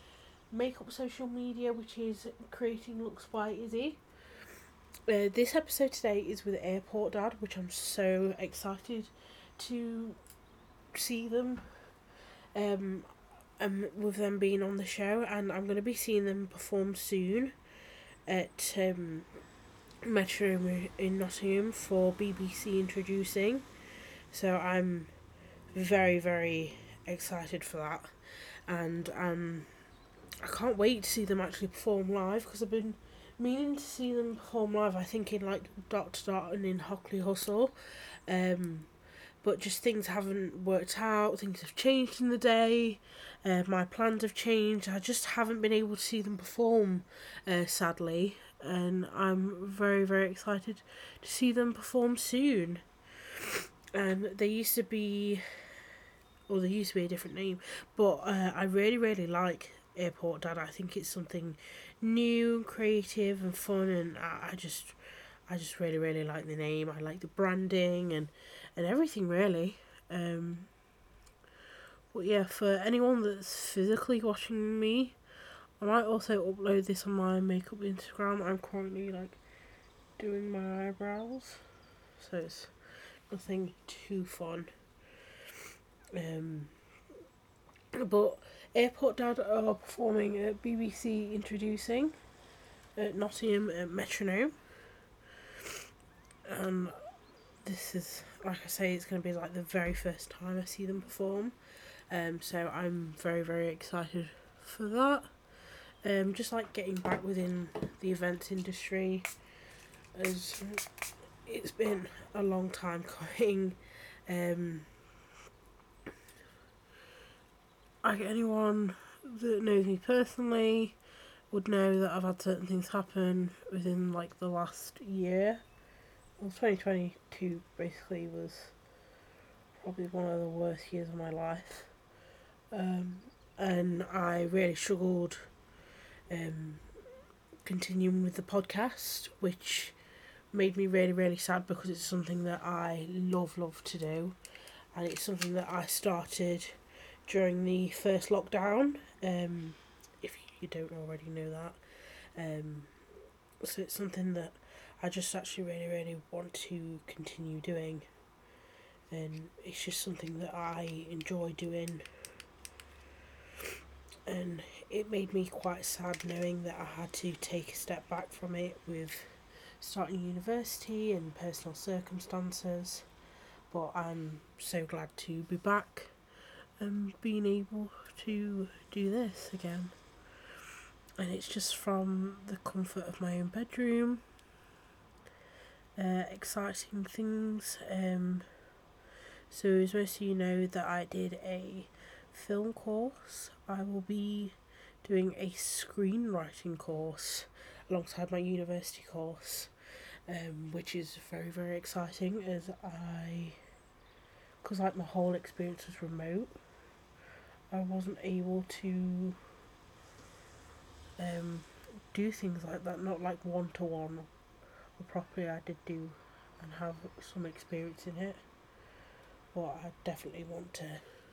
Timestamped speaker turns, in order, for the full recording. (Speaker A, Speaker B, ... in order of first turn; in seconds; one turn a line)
Speaker A: 0.5-4.0
Speaker A: 5.1-10.2
Speaker A: 10.9-11.6
Speaker A: 12.5-17.5
Speaker A: 18.3-19.3
Speaker A: 20.0-23.6
Speaker A: 24.3-25.1
Speaker A: 25.7-28.1
Speaker A: 28.7-29.7
Speaker A: 30.4-37.7
Speaker A: 38.3-38.9
Speaker A: 39.4-55.4
Speaker A: 56.5-65.0
Speaker A: 65.5-70.7
Speaker A: 72.1-75.2
Speaker A: 75.8-79.4
Speaker A: 80.2-81.6
Speaker A: 82.2-82.7
Speaker A: 83.3-84.7
Speaker A: 86.1-86.7
Speaker A: 87.9-92.1
Speaker A: 93.0-94.5
Speaker A: 96.5-97.0
Speaker A: 97.6-101.5
Speaker A: 102.1-105.3
Speaker A: 106.0-109.3
Speaker A: 110.1-110.9
Speaker A: 111.5-114.9
Speaker A: 118.0-121.0
Speaker A: 121.5-125.6
Speaker A: 126.4-128.7
Speaker A: 129.7-131.9
Speaker A: 132.7-135.5
Speaker A: 136.3-136.8
Speaker A: 137.6-139.9
Speaker A: 140.5-144.4
Speaker A: 144.9-151.8
Speaker A: 152.3-152.9
Speaker A: 153.6-158.1
Speaker A: 159.1-162.1
Speaker A: 164.3-173.1
Speaker A: 173.7-176.1
Speaker A: 176.8-179.9
Speaker A: 181.2-184.2
Speaker A: 186.0-188.5
Speaker A: 189.5-199.7
Speaker A: 200.3-203.6
Speaker A: 204.6-206.6
Speaker A: 207.7-209.4
Speaker A: 211.2-214.3
Speaker A: 215.0-218.4
Speaker A: 219.5-221.0